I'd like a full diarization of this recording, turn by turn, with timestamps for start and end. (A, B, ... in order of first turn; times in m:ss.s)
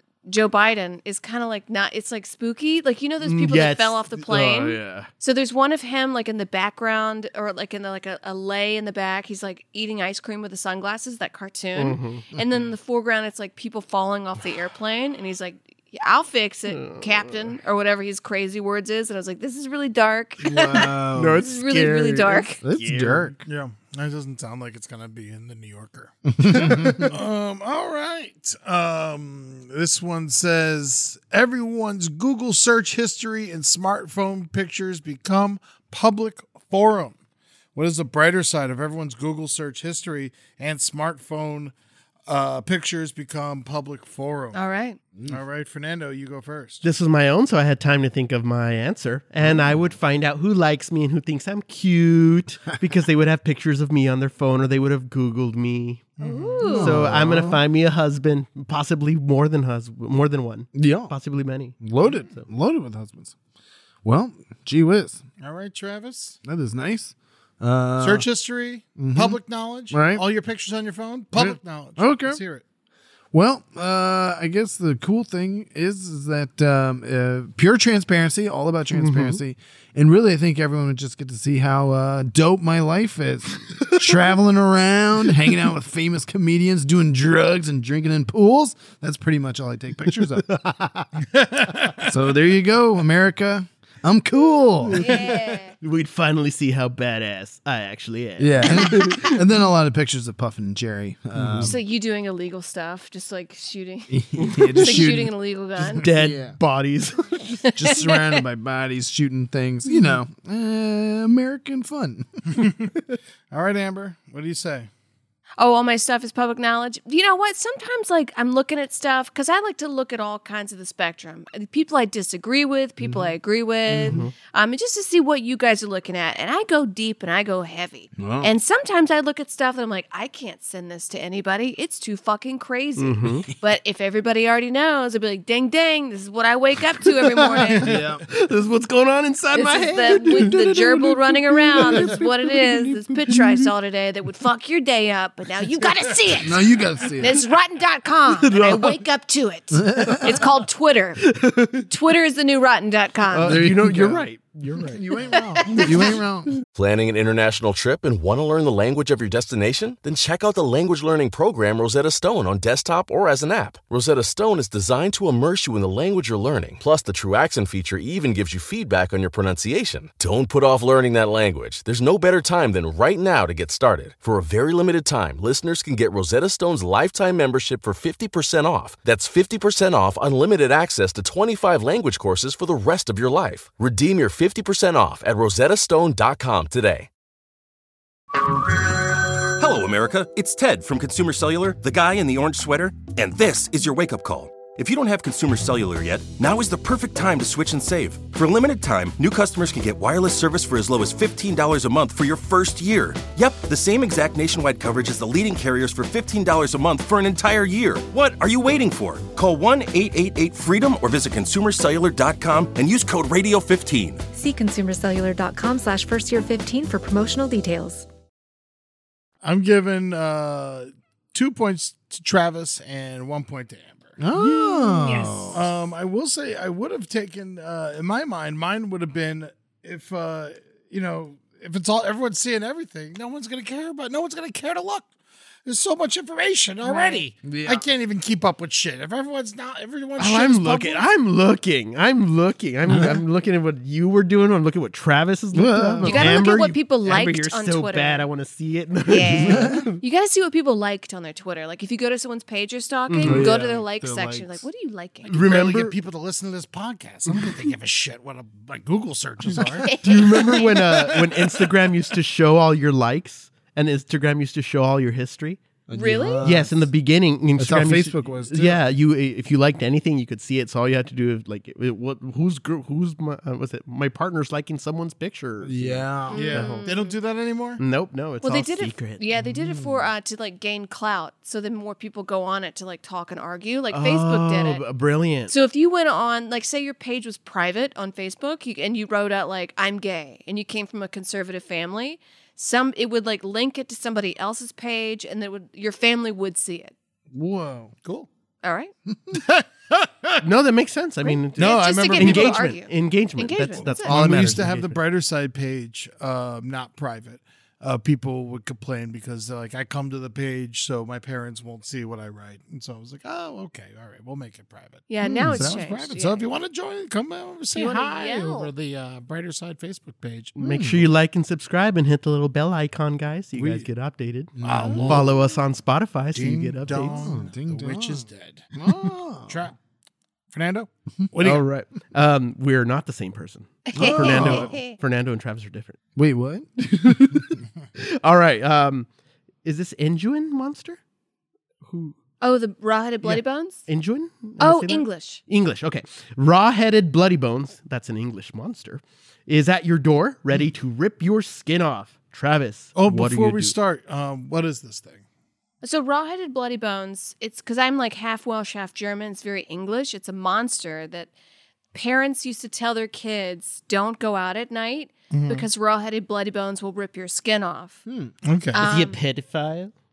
0:00.3-0:22.6 A
0:03.2-0:05.1 B
0:11.7-0:12.3 B
0:16.7-0:17.6 B
0:20.4-0:21.4 C
0:21.1-0:23.4 B
0:22.6-0:23.4 C
0:23.4-0:37.2 D
0:26.3-0:27.2 C
0:37.7-0:41.7 D
0:42.3-0:44.6 D
0:44.5-0:45.0 A
0:45.3-0:46.8 D
0:46.8-1:02.4 B
0:56.2-0:56.9 D
0:56.3-0:57.0 A
0:56.6-0:57.6 C
1:00.7-1:01.1 C
1:01.8-1:03.3 C
1:04.0-1:05.2 C
1:05.4-1:06.4 D
1:06.4-1:08.3 C
1:08.0-1:12.6 D
1:09.0-1:10.2 C
1:11.3-1:12.4 C
1:13.3-1:30.6 C
1:18.9-1:19.4 B
1:30.5-1:31.0 B
1:31.3-1:32.1 D
1:32.0-1:35.1 C
1:34.9-1:39.4 B
1:35.0-1:35.7 A
1:38.4-1:41.8 C
1:41.4-1:41.7 B
1:41.6-1:46.0 A
1:44.1-1:45.3 C
1:44.4-1:45.1 B
1:46.0-1:47.6 B
1:46.0-1:46.6 C
1:47.6-1:48.4 A
1:47.8-1:52.3 C
1:52.5-1:52.9 D
1:53.5-1:54.9 D
1:55.6-2:17.9 A
2:03.0-2:03.3 C
2:03.9-2:04.2 C
2:04.0-2:04.3 B
2:08.2-2:08.5 C
2:13.0-2:13.5 B
2:17.8-2:18.2 C
2:17.8-2:23.4 B
2:19.5-2:33.6 A
2:26.4-2:27.4 C
2:28.3-2:29.0 B
2:29.7-2:30.4 C
2:31.3-2:31.8 B
2:33.3-2:34.2 C
2:33.4-2:35.0 B
2:34.8-2:36.5 C
2:35.3-2:35.9 A
2:36.7-3:07.1 E
3:09.6-3:34.2 F
3:34.3-3:38.1 G
3:39.4-3:44.2 D
3:44.2-3:45.6 C
3:44.4-3:45.6 A
3:45.5-3:55.1 D
3:55.6-4:01.0 D
3:56.8-3:57.2 A
3:57.4-3:57.9 C
4:00.2-4:10.0 B
4:02.9-4:03.2 C
4:05.5-4:06.4 C
4:06.0-4:08.3 A
4:09.1-4:15.3 A
4:09.4-4:09.9 C
4:13.1-4:13.5 B
4:13.2-4:14.7 C
4:15.3-4:20.0 D
4:15.3-4:16.0 B
4:19.8-4:20.8 A
4:20.0-4:25.6 B
4:20.5-4:21.6 D
4:25.9-4:26.9 C
4:25.9-4:26.4 A
4:26.4-4:36.8 B
4:27.6-4:28.8 C
4:35.6-4:36.5 C
4:36.3-4:37.2 A
4:36.3-4:37.8 D
4:37.8-4:39.2 B
4:38.4-4:44.8 A
4:39.4-4:40.1 C
4:43.9-4:45.5 B
4:45.5-4:56.9 A
4:57.3-4:57.9 C
4:58.6-4:58.9 A
4:59.3-5:00.4 D
5:00.4-5:05.0 B
5:01.2-5:04.2 A
5:01.6-5:02.7 D
5:03.9-5:20.6 D
5:15.1-5:16.5 A
5:15.2-5:15.8 C
5:17.7-5:18.7 A
5:20.6-5:27.2 B
5:20.6-5:21.1 C
5:23.6-5:23.8 D
5:24.6-5:25.3 C
5:24.6-5:25.4 D
5:26.3-5:28.7 D
5:27.0-5:29.6 C
5:29.5-5:29.8 D
5:30.5-5:31.6 D
5:31.4-5:36.0 B
5:33.9-5:35.0 A
5:34.0-5:34.8 C
5:36.2-5:37.6 C
5:38.0-5:39.1 B
5:39.6-5:41.0 B
5:41.9-5:42.1 B
5:42.4-5:43.8 A
5:43.2-5:53.8 B
5:44.6-5:45.4 A
5:53.0-5:55.2 D
5:55.8-6:01.3 A
6:01.9-6:08.0 A
6:05.3-6:05.7 D
6:08.1-6:08.3 C
6:08.4-6:08.8 D
6:08.7-6:09.2 A
6:08.8-6:09.9 B